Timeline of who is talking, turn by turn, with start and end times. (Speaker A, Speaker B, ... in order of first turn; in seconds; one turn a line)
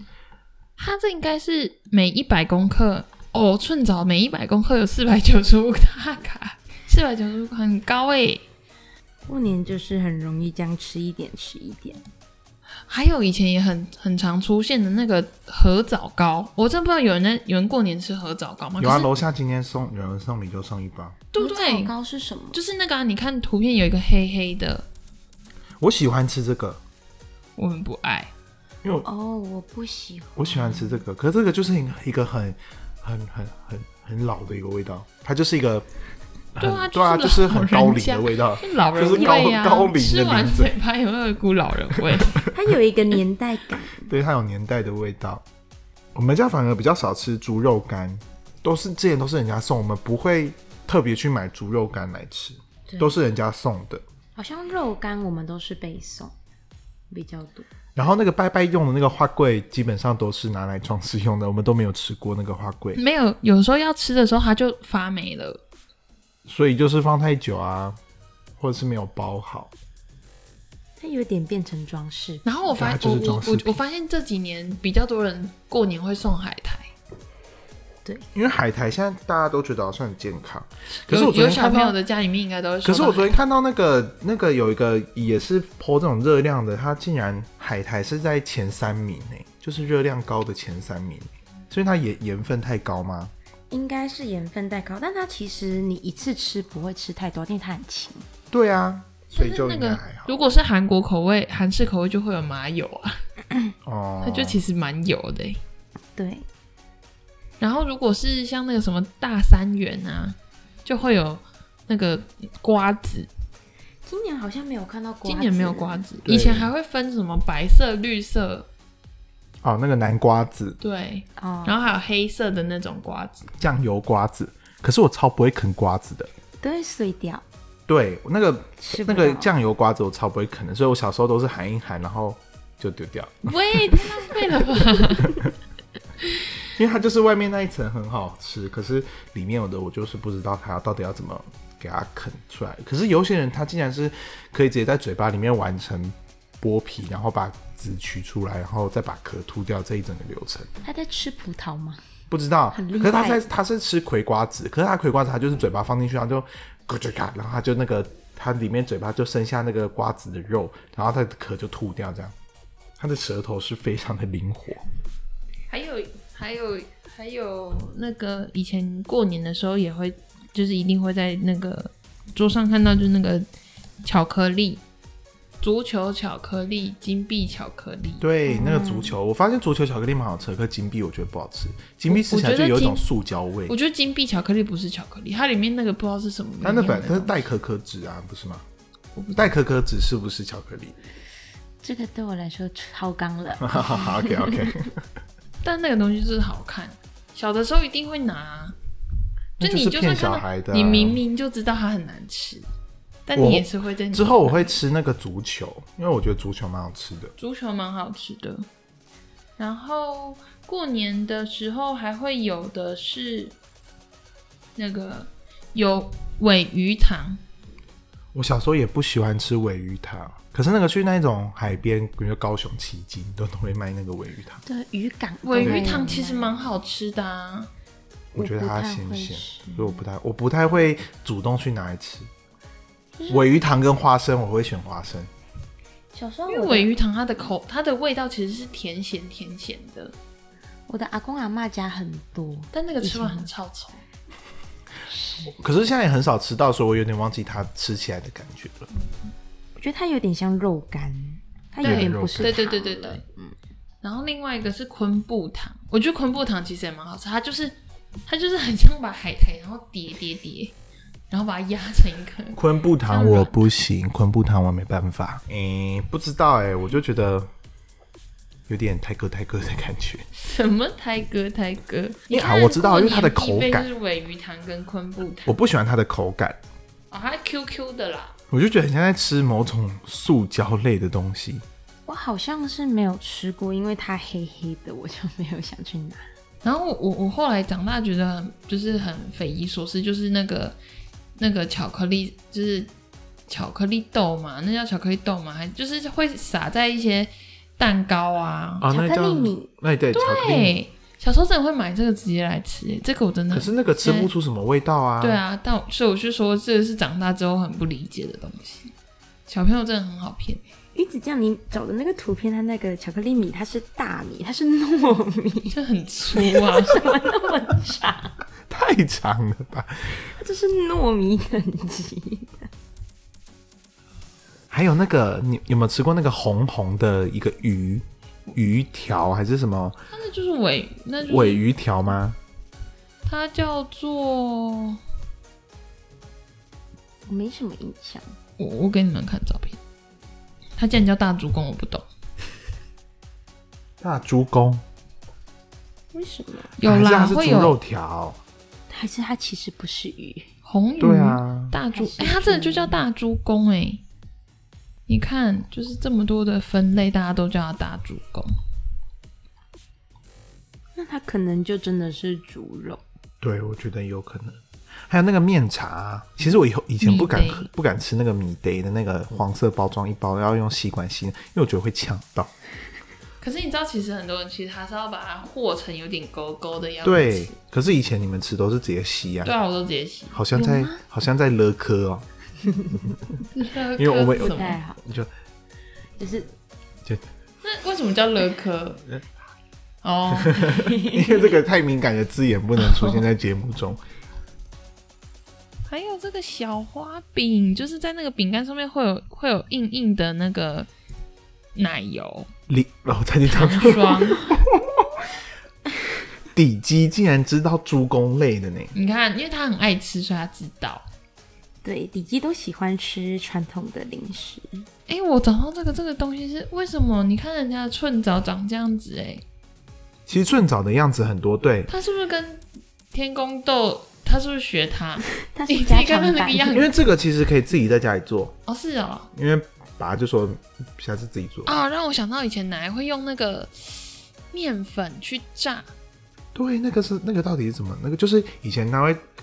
Speaker A: 0.8-8.4
Speaker B: 9.2-12.0
Speaker A: 12.9-19.1
Speaker C: 18.8-21.2
Speaker A: 21.3-21.9
Speaker B: 21.4-22.6
Speaker A: 22.5-24.9
Speaker C: 25.8-26.8
Speaker A: 27.6-28.3
Speaker B: 29.0-31.0
Speaker C: 30.4-35.9
Speaker C: 36.5-40.7
Speaker A: 36.6-42.5
Speaker B: 42.5-44.1
Speaker C: 44.0-45.4
Speaker C: 46.1-54.0
Speaker B: 52.9-53.1
Speaker B: 54.4-56.3
Speaker B: 57.1-57.7
Speaker C: 57.9-63.0
Speaker A: 62.9-65.6
Speaker C: 66.5-68.0
Speaker C: 68.6-69.7
Speaker B: 71.0-72.5
Speaker A: 72.4-76.9
Speaker C: 72.7-73.8
Speaker C: 78.3-81.9
Speaker A: 80.9-83.4
Speaker C: 82.8-93.3
Speaker B: 93.7-98.2
Speaker C: 98.5-100.3
Speaker A: 99.3-103.2
Speaker C: 103.8-104.6
Speaker A: 104.2-105.6
Speaker B: 106.2-106.5
Speaker A: 107.6-113.3
Speaker B: 114.0-116.0
Speaker A: 115.2-118.7
Speaker C: 116.2-116.7
Speaker C: 119.6-120.8
Speaker A: 120.8-123.5
Speaker B: 121.4-121.8
Speaker C: 123.6-126.3
Speaker B: 126.6-127.4
Speaker C: 127.9-134.0
Speaker B: 128.8-129.5
Speaker A: 133.4-135.4
Speaker C: 135.2-135.5
Speaker C: 136.7-150.7
Speaker B: 150.8-152.0
Speaker C: 152.3-162.3
Speaker B: 152.7-153.5
Speaker C: 163.0-164.8
Speaker A: 165.7-173.5
Speaker A: 174.0-174.8
Speaker A: 175.6-178.2
Speaker C: 178.2-183.8
Speaker B: 178.5-179.2
Speaker A: 182.1-183.0
Speaker A: 183.7-187.4
Speaker C: 186.6-188.6
Speaker A: 189.2-189.4
Speaker C: 189.3-191.0
Speaker B: 191.8-194.7
Speaker C: 193.6-195.0
Speaker A: 195.6-198.7
Speaker C: 199.6-201.2
Speaker A: 199.6-202.7
Speaker A: 203.2-204.8
Speaker C: 203.3-207.3
Speaker A: 207.4-208.7
Speaker A: 209.6-213.6
Speaker A: 214.8-217.4
Speaker C: 218.3-224.6
Speaker B: 224.7-226.7
Speaker A: 225.4-227.7
Speaker C: 225.6-226.0
Speaker C: 228.3-232.3
Speaker B: 228.3-230.0
Speaker B: 233.2-233.5
Speaker C: 233.3-235.3
Speaker B: 236.1-236.9
Speaker A: 236.5-240.1
Speaker B: 240.9-243.5
Speaker A: 242.7-244.0
Speaker B: 245.1-245.5
Speaker C: 245.4-248.9
Speaker B: 249.8-253.5
Speaker C: 251.8-252.5
Speaker A: 251.8-253.2
Speaker A: 254.0-260.7
Speaker A: 261.3-263.6
Speaker C: 262.5-267.5
Speaker C: 268.7-270.2
Speaker A: 270.4-275.5
Speaker C: 272.3-273.9
Speaker C: 275.4-276.6
Speaker A: 277.1-278.3
Speaker C: 278.5-281.6
Speaker B: 282.1-286.3
Speaker A: 286.6-290.8
Speaker A: 291.4-292.9
Speaker A: 293.5-298.9
Speaker C: 298.8-300.8
Speaker B: 298.9-299.7
Speaker A: 300.1-304.3
Speaker C: 303.5-305.4
Speaker A: 305.2-308.9
Speaker A: 309.5-310.6
Speaker B: 310.9-315.8
Speaker A: 315.7-317.1
Speaker B: 316.3-318.4
Speaker C: 318.7-320.2
Speaker B: 320.2-322.7
Speaker C: 324.7-330.0
Speaker A: 330.1-331.6
Speaker C: 331.2-332.4
Speaker A: 333.2-335.0
Speaker B: 337.3-338.3
Speaker A: 338.6-339.8
Speaker A: 340.8-342.1
Speaker C: 344.0-344.8
Speaker B: 346.1-346.7
Speaker A: 346.8-347.8
Speaker C: 346.8-348.4
Speaker B: 348.9-350.5
Speaker A: 350.6-354.0
Speaker C: 351.0-351.8
Speaker B: 351.9-353.0
Speaker A: 355.1-358.5
Speaker B: 360.9-363.0
Speaker C: 363.4-372.5
Speaker A: 367.0-367.7
Speaker A: 373.4-377.5
Speaker C: 377.0-379.5
Speaker A: 379.4-380.4
Speaker C: 380.3-382.2
Speaker B: 380.5-381.0
Speaker A: 383.5-384.8
Speaker C: 384.0-385.3
Speaker B: 384.4-385.0
Speaker B: 386.2-386.5
Speaker A: 387.6-389.0
Speaker A: 390.0-390.9
Speaker C: 390.4-394.0
Speaker B: 390.9-391.4
Speaker A: 395.9-400.9
Speaker A: 401.7-402.5
Speaker C: 402.7-404.8
Speaker A: 403.5-404.5
Speaker C: 406.5-408.9
Speaker A: 408.9-411.0
Speaker B: 411.8-414.9
Speaker A: 415.1-419.4
Speaker C: 420.3-421.9
Speaker A: 421.9-426.9
Speaker B: 425.4-426.9
Speaker C: 426.7-428.6
Speaker A: 428.6-429.3
Speaker C: 429.3-431.8
Speaker A: 431.6-435.9
Speaker C: 436.5-439.2